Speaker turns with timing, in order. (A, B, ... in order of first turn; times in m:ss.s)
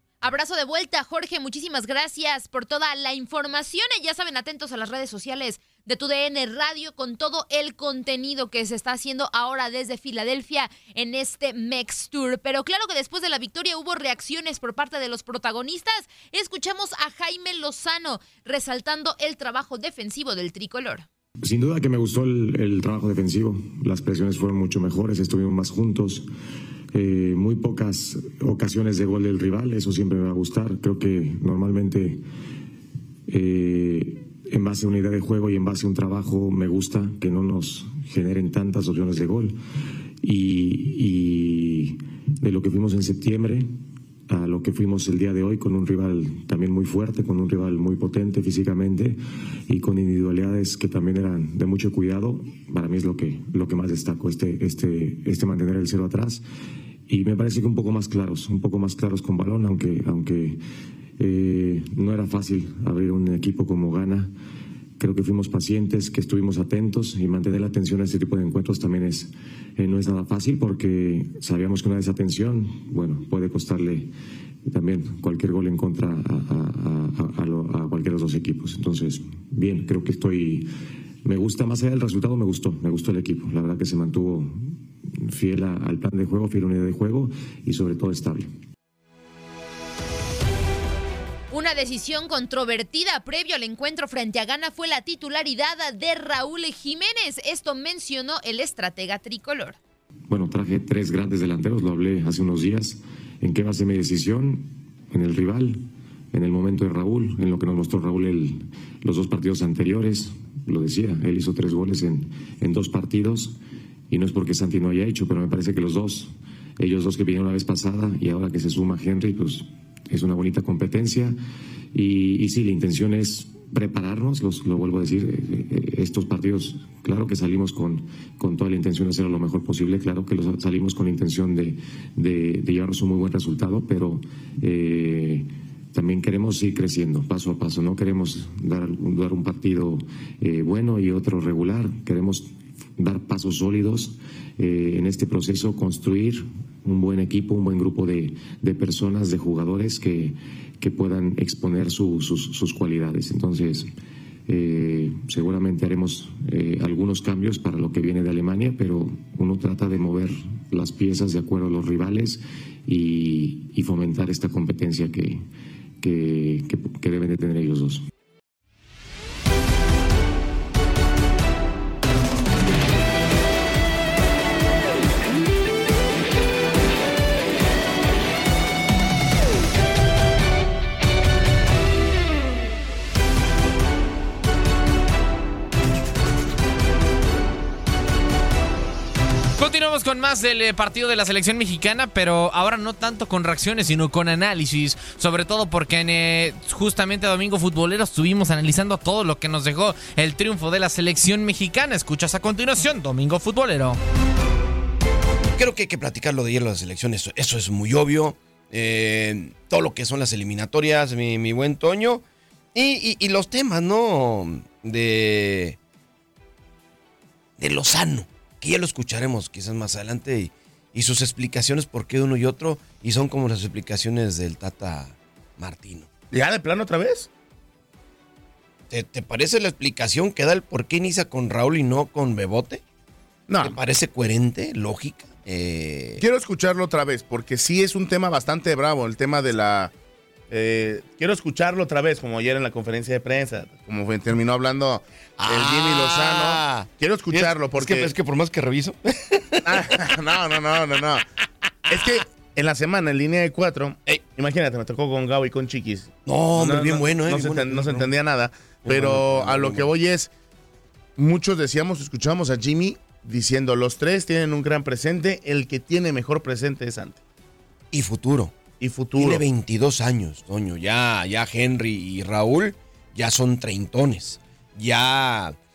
0:00.2-0:21.0 A
0:21.4-0:26.3 B
0:26.9-0:32.2 B
0:33.3-0:39.6 B
0:40.2-0:43.7 B
0:44.3-0:56.4 B
0:57.1-1:00.6 B
1:01.2-1:04.3 B
1:05.0-1:14.1 B
1:14.6-1:20.7 B
1:21.2-1:28.5 B
1:31.5-1:39.8 A
1:40.3-1:53.6 B
1:54.1-2:01.4 B
2:01.9-2:33.9 B
2:34.5-2:45.4 B
2:46.0-2:48.0 B
3:09.6-3:24.0 C
3:25.6-3:32.2 D
3:32.7-3:35.8 D
3:37.6-3:46.1 D
3:46.3-3:47.3 E
3:48.9-3:52.8 D
3:53.5-3:53.8 E
3:53.6-3:56.2 D
3:56.2-3:59.9 E
4:00.5-4:08.1 E
4:05.4-4:09.9 D
4:09.6-4:11.2 E
4:11.9-4:20.3 E
4:16.2-4:18.1 D
4:18.8-4:19.9 D
4:21.2-4:27.2 E
4:27.9-4:28.5 D
4:28.8-4:29.4 E
4:29.2-4:35.6 D